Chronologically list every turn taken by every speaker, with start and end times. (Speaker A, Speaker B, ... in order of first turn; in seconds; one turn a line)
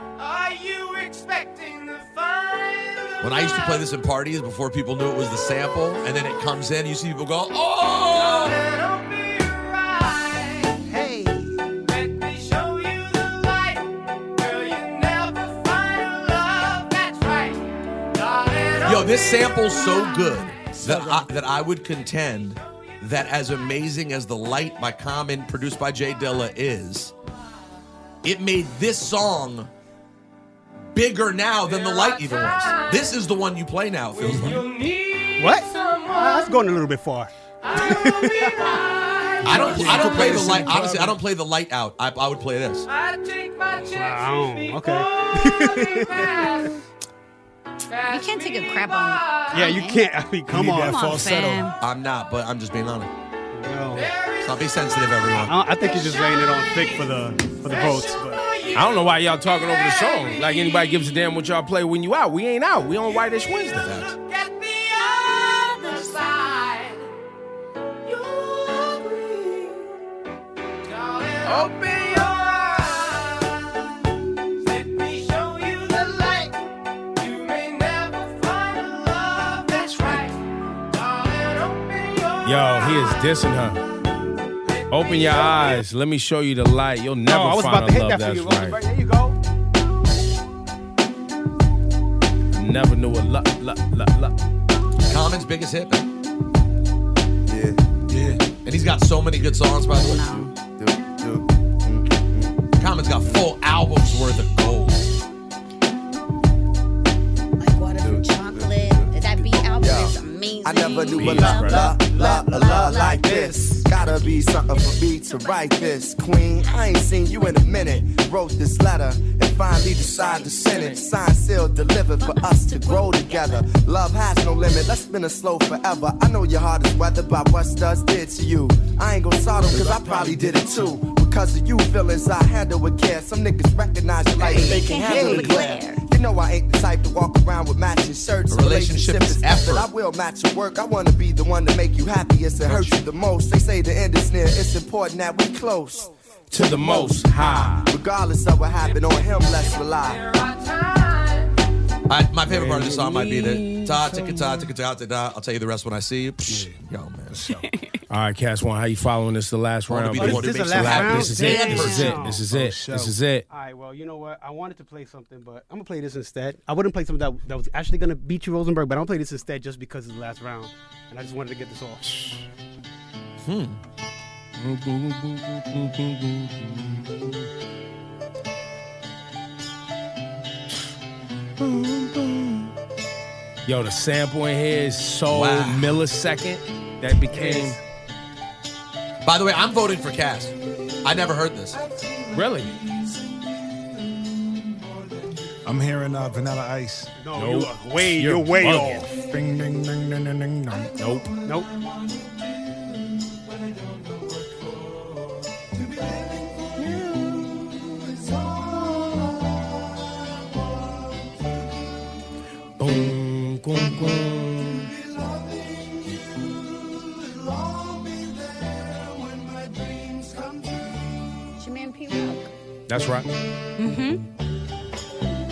Speaker A: 0.2-3.9
Speaker B: 3.2-8.6
Speaker A: 8.1-10.8
Speaker C: 10.9-11.6
Speaker A: 11.8-20.8
Speaker B: 18.8-27.1
Speaker C: 20.8-21.3
Speaker A: 22.4-22.9
Speaker B: 28.2-29.7
Speaker B: 30.9-34.6
Speaker A: 31.6-33.1
Speaker A: 34.2-36.6
Speaker D: 34.2-34.6
Speaker C: 35.4-38.8
Speaker A: 37.6-40.3
Speaker B: 39.4-42.9
Speaker D: 39.5-41.2
Speaker A: 42.9-46.8
Speaker C: 43.9-46.6
Speaker A: 47.9-49.7
Speaker E: 48.1-50.1
Speaker C: 49.5-51.0
Speaker D: 50.5-51.7
Speaker E: 50.8-51.7
Speaker B: 51.8-53.1
Speaker C: 53.5-54.1
Speaker A: 53.9-55.1
Speaker B: 54.4-55.5
Speaker C: 55.3-58.4
Speaker A: 55.7-61.1
Speaker F: 58.7-63.9
Speaker A: 63.1-67.1
Speaker B: 63.8-64.1
Speaker A: 68.0-70.0
Speaker A: 70.8-73.8
Speaker F: 71.5-72.2
Speaker A: 74.6-76.6
Speaker A: 77.2-83.5
Speaker F: 82.4-83.8
Speaker A: 84.7-85.8
Speaker F: 84.9-88.8
Speaker C: 87.3-89.4
Speaker F: 92.5-94.3
Speaker B: 95.1-96.0
Speaker D: 98.1-98.4
Speaker B: 98.6-100.5
Speaker E: 99.9-100.5
Speaker G: 100.8-101.4
Speaker B: 102.8-105.0
Speaker E: 107.6-111.9
Speaker G: 109.8-150.2
Speaker F: 111.1-111.9
Speaker C: 111.3-113.9
Speaker E: 112.6-113.2
Speaker F: 120.0-121.0
Speaker E: 122.2-123.6
Speaker E: 134.3-136.0
Speaker C: 135.1-135.6
Speaker B: 138.5-139.9
Speaker B: 142.6-143.0
Speaker F: 146.5-147.9
Speaker A: 148.8-151.6
Speaker B: 152.1-157.4
Speaker D: 152.6-153.2
Speaker D: 156.5-156.8
Speaker D: 157.3-157.7
Speaker F: 158.1-163.4
Speaker B: 159.9-162.1
Speaker C: 160.1-162.5
Speaker E: 161.4-162.2
Speaker D: 162.5-163.1
Speaker C: 163.5-172.1
Speaker B: 173.4-173.8
Speaker F: 174.6-177.3
Speaker F: 181.6-182.7
Speaker F: 183.7-187.8
Speaker B: 185.3-186.0
Speaker C: 187.3-187.7
Speaker B: 189.2-191.8
Speaker A: 191.8-192.4
Speaker F: 192.3-192.7
Speaker D: 195.6-197.1
Speaker C: 197.2-199.1
Speaker F: 197.3-199.1
Speaker D: 199.1-201.0
Speaker F: 201.0-201.3
Speaker C: 201.4-201.7
Speaker F: 212.8-214.9
Speaker E: 221.6-222.4
Speaker F: 222.9-223.3
Speaker E: 223.8-224.2